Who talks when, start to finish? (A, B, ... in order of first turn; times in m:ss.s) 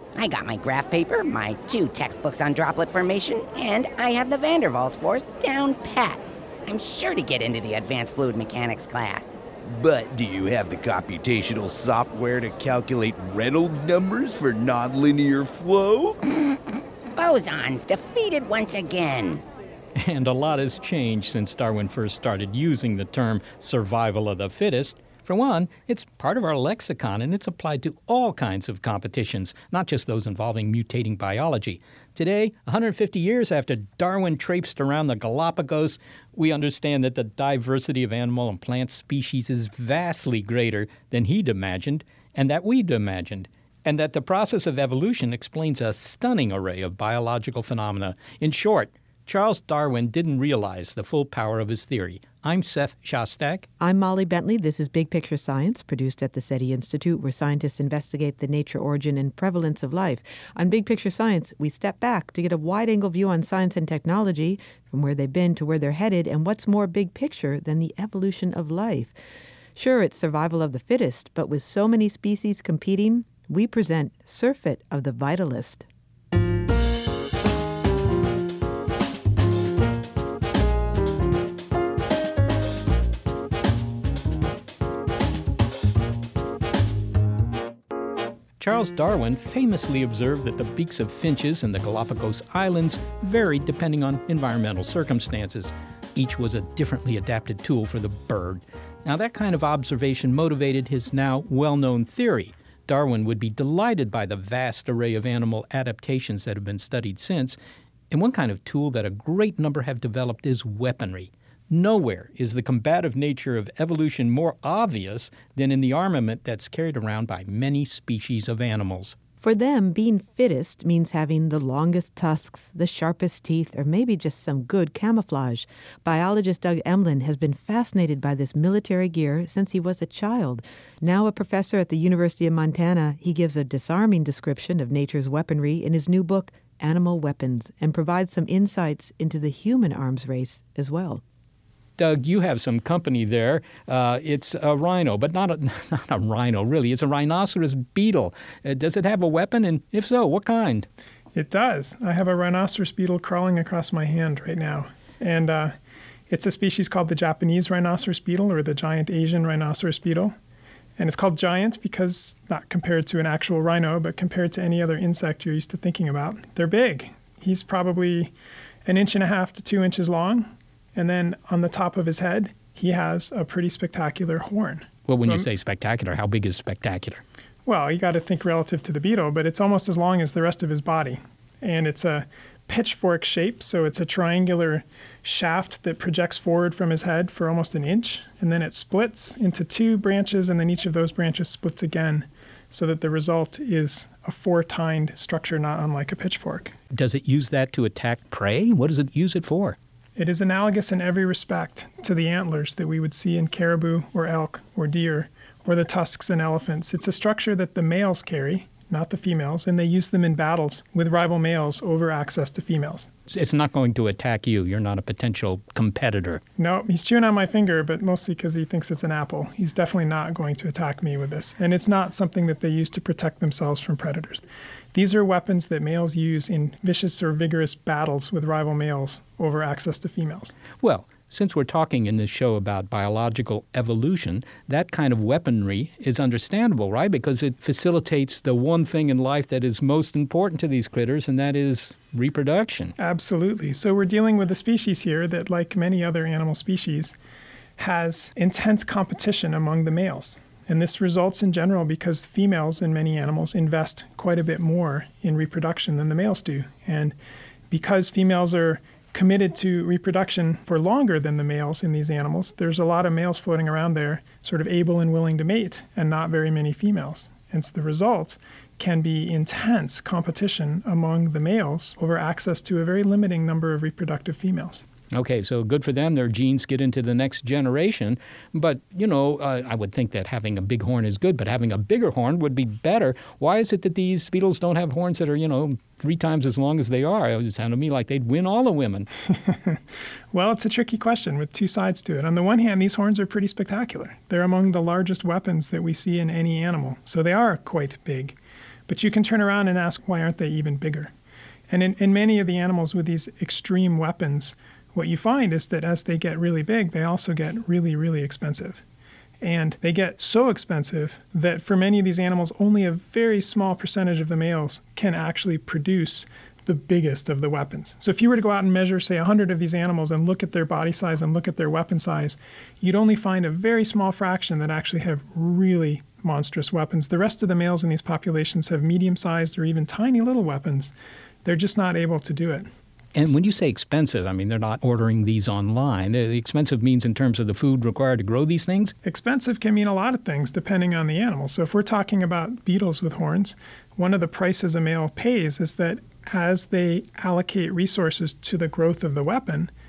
0:00.2-0:09.4 A
0:09.7-0:16.2 B
0:16.3-0:16.6 A
0:17.1-0:19.4 A
0:20.0-0:53.7 C
0:53.8-1:09.2 D
1:09.8-1:15.9 D
1:28.6-1:47.6 C
1:48.1-1:59.2 C
1:59.4-2:21.2 D
2:22.0-2:30.9 C
2:31.4-2:35.8 E
2:36.3-2:40.4 E
2:41.0-2:48.3 E
2:48.9-2:55.5 E
2:55.1-2:57.2 C
2:57.7-3:16.7 E
3:16.9-3:19.8 C
3:20.2-3:33.1 E
3:33.3-3:36.4 C
3:36.6-3:50.5 E
3:50.8-4:03.0 C
4:03.0-4:07.2 E
4:07.8-4:17.2 E
4:17.7-4:34.8 E
4:35.1-4:49.1 C
4:49.5-4:49.8 E
4:50.3-4:58.4 E
4:58.9-5:01.1 E
5:01.7-5:08.8 E
5:09.4-5:30.9 E
5:31.4-5:32.7 E
5:33.1-5:39.0 C
5:39.0-5:49.7 E